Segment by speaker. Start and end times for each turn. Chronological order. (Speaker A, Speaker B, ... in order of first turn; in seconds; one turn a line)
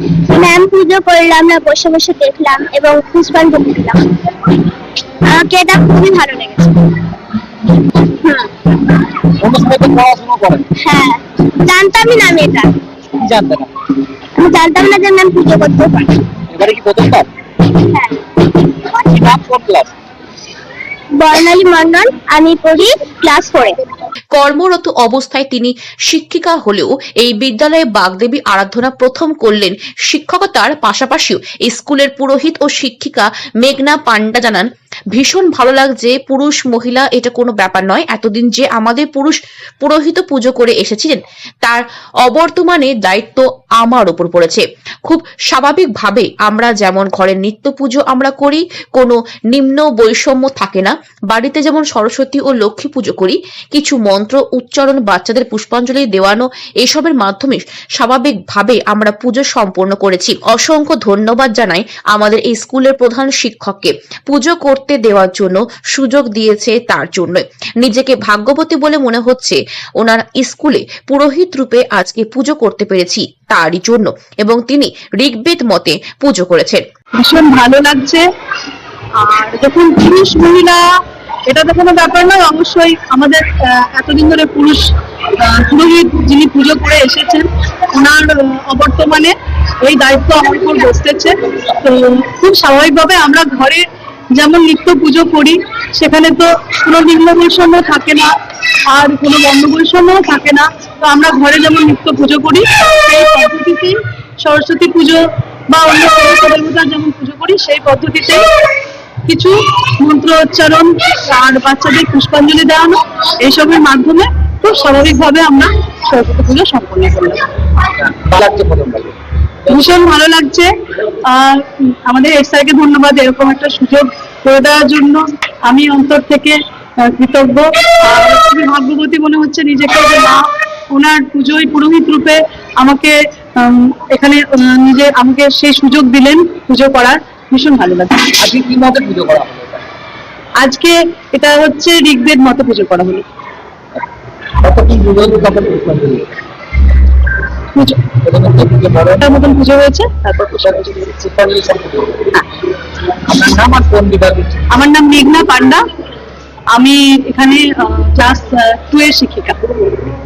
Speaker A: 0.3-4.5
Speaker A: 5.3-6.9
Speaker A: 8.2-8.5
Speaker B: 9.4-10.7
Speaker A: 10.8-12.7
Speaker B: 13.2-13.7
Speaker A: 14.4-16.2
Speaker B: 16.5-17.3
Speaker A: 17.7-18.2
Speaker B: 18.9-19.9
Speaker A: 21.1-23.8
Speaker C: 24.3-76.8
Speaker D: 77.2-78.2
Speaker D: 79.2-80.8
Speaker D: 81.5-98.3
Speaker D: 98.9-108.5
Speaker D: 109.3-117.5
Speaker B: 118.0-119.1
Speaker D: 119.7-138.3
Speaker B: 138.4-139.8
Speaker D: 140.6-143.2
Speaker B: 144.6-146.3
Speaker D: 147.8-148.1
Speaker B: 148.2-149.5
Speaker D: 149.2-151.1
Speaker B: 151.1-152.4
Speaker B: 153.1-154.7
Speaker D: 154.7-155.8
Speaker D: 156.7-159.7